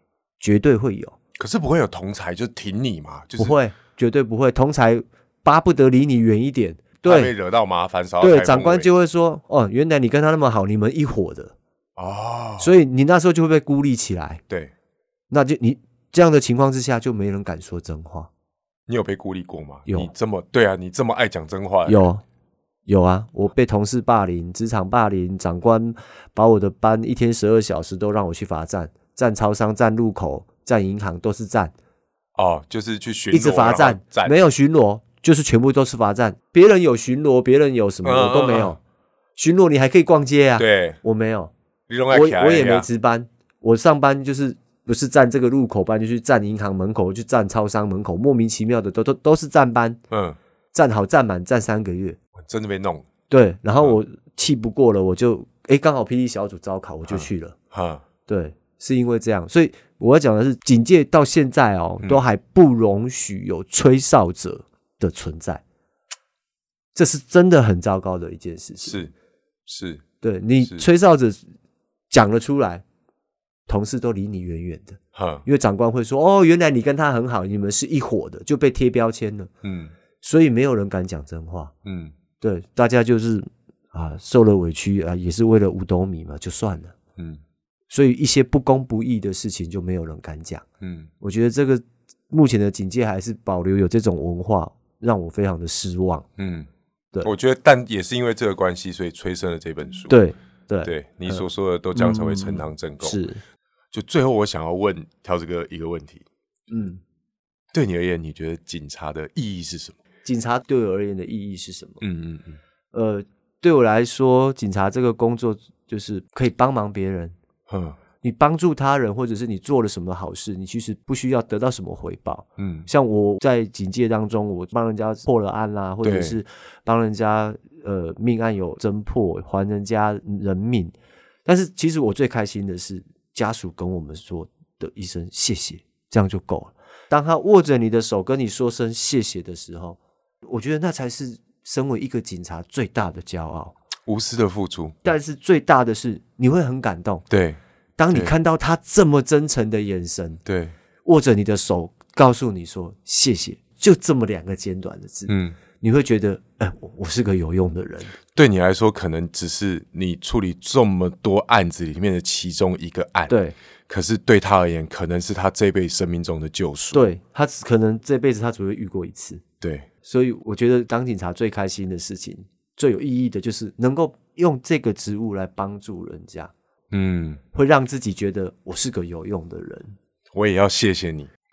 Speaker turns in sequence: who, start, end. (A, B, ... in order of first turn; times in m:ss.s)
0:00.4-0:01.2 A
0:01.4-0:03.6 B
0:03.4-0:07.3 A
0:07.0-0:08.9 B
0:08.2-0:11.6 A
0:12.0-0:12.7 B
0:12.6-0:14.4 A
0:15.3-0:18.3 A
0:18.9-0:22.1 B
0:21.9-0:22.2 A
0:22.9-0:31.7 A
0:32.4-0:34.4 B
0:33.3-0:38.8 A
0:38.0-0:38.7 B
0:39.4-0:41.5 A
0:40.6-0:41.0 B
0:41.9-0:42.9 B
0:42.1-0:50.0 A
0:50.1-0:50.4 B
0:50.7-0:52.2 A
0:52.4-0:53.1 B
0:53.3-0:57.6 A
0:57.1-0:58.0 B
0:58.3-1:05.6 A
1:07.0-1:09.0 A
1:08.9-1:09.1 B
1:09.7-1:10.0 B
1:10.2-1:11.4 A
1:12.1-1:12.8 A
1:13.7-1:19.5 A
1:15.1-1:15.4 B
1:19.6-1:19.9 B
1:20.2-1:21.7 A
1:21.8-1:22.1 B
1:22.4-1:27.0 A
1:27.9-1:30.6 A
1:30.8-1:31.1 B
1:31.2-1:36.3 A
1:36.4-1:36.7 B
1:37.2-1:40.2 B
1:40.1-1:43.4 A
1:40.8-1:43.2 B
1:43.9-1:46.2 B
1:46.7-1:47.0 A
1:47.7-1:50.0 B
1:50.2-1:52.0 A
1:52.0-1:52.6 B
1:52.9-1:57.4 A
1:57.7-1:58.0 B
1:58.2-2:10.9 A
2:02.6-2:02.9 B
2:06.0-2:06.4 B
2:11.4-2:23.7 A
2:24.1-2:25.0 B
2:25.0-2:27.2 A
2:27.3-2:27.6 B
2:28.0-2:30.4 A
2:30.4-2:30.7 B
2:31.0-2:38.2 A
2:35.3-2:35.6 B
2:38.3-2:43.3 B
2:43.3-2:43.6 A
2:43.9-2:47.1 B
2:46.9-2:49.4 A
2:49.6-2:49.9 B
2:50.0-2:56.5 A
2:56.9-2:57.4 B
2:57.5-3:00.0 A
3:00.3-3:01.3 B